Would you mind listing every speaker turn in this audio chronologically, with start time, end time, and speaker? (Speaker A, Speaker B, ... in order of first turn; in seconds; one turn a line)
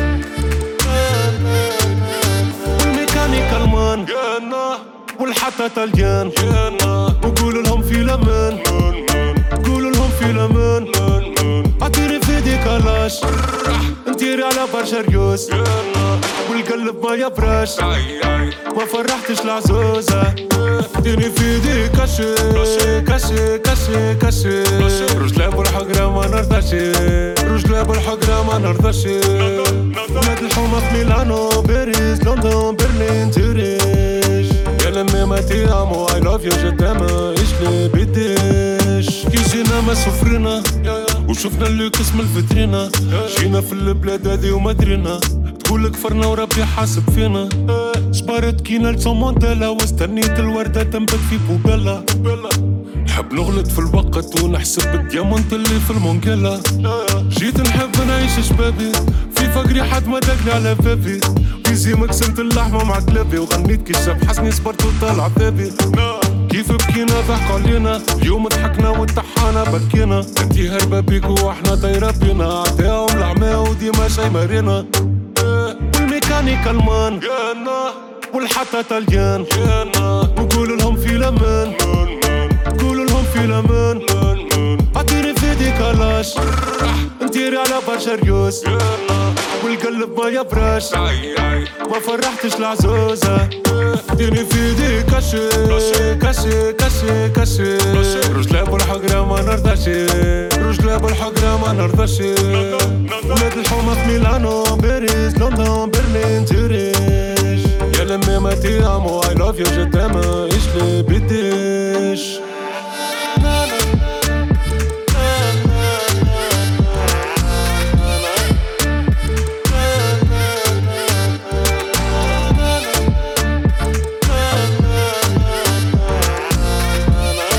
Speaker A: 1.0-112.5
Speaker A: 124.5-125.7